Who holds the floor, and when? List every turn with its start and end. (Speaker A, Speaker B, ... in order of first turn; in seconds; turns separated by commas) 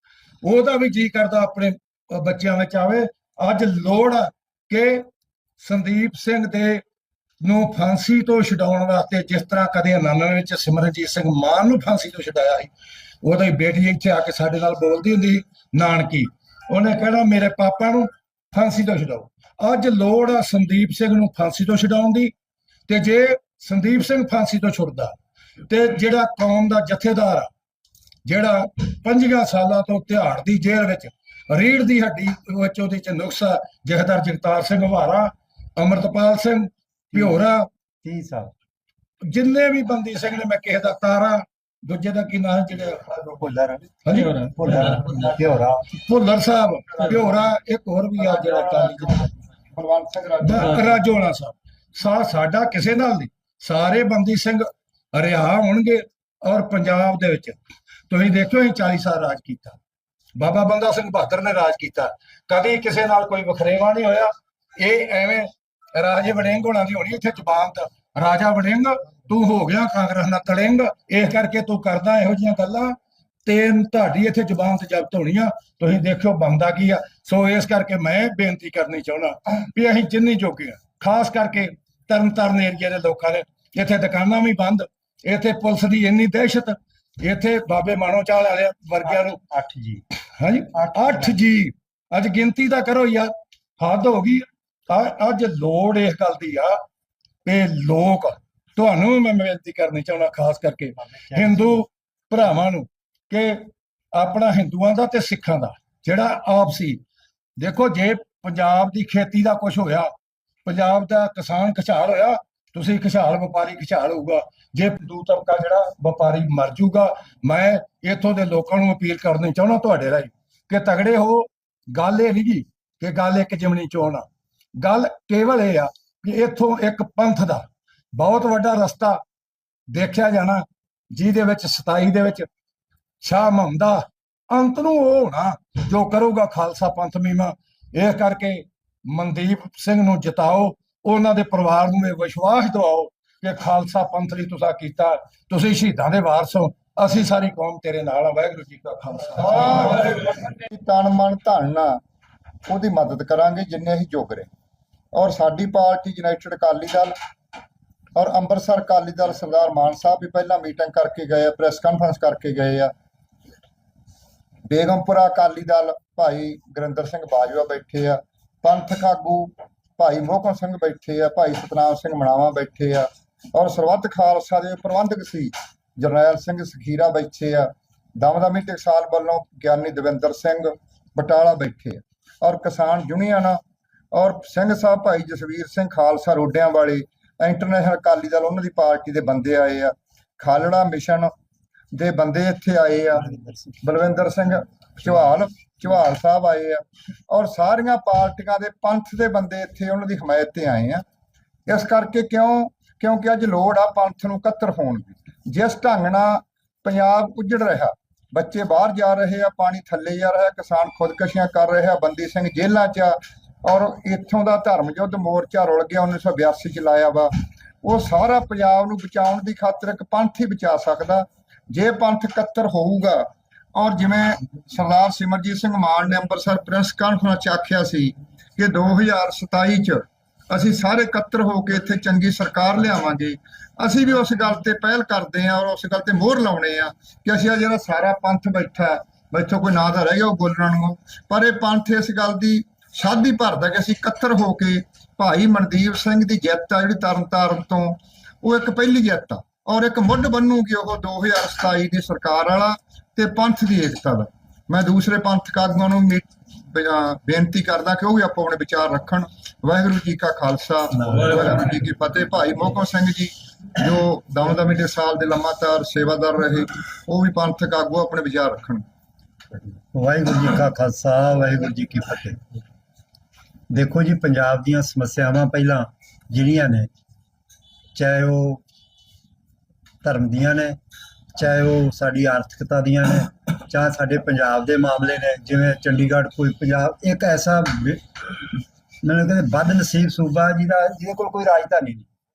Speaker A: 0.4-5.0, Speaker A: 5.6-6.8, Speaker A: 7.4-12.7, Speaker A: 13.2-22.3, Speaker A: 22.9-25.1, Speaker A: 25.7-27.5, Speaker A: 28.2-37.7, Speaker B: 38.0-38.5, Speaker A: 39.2-43.0, Speaker B: 43.3-45.8, Speaker A: 44.0-44.5, Speaker A: 45.9-49.3, Speaker C: 48.2-49.1, Speaker C: 49.7-51.0, Speaker A: 50.4-57.5, Speaker A: 58.1-59.8, Speaker A: 60.4-89.4, Speaker B: 89.0-90.0, Speaker A: 90.4-96.8, Speaker B: 90.7-91.4, Speaker A: 97.4-107.0, Speaker B: 101.1-101.6, Speaker A: 107.6-110.1, Speaker A: 110.6-124.2, Speaker A: 124.8-129.2, Speaker A: 129.9-132.5, Speaker A: 133.2-150.0, Speaker C: 149.4-152.0, Speaker C: 152.7-154.5, Speaker C: 155.1-157.1, Speaker C: 158.1-162.9, Speaker C: 164.7-183.6, Speaker C: 184.1-191.3, Speaker C: 191.9-193.3, Speaker B: 193.3-193.8, Speaker C: 193.8-201.0, Speaker C: 201.7-268.8, Speaker B: 261.1-261.4, Speaker B: 269.9-272.4, Speaker B: 273.7-276.9, Speaker B: 277.9-278.6, Speaker B: 280.0-280.8, Speaker B: 281.3-288.0, Speaker B: 289.0-292.1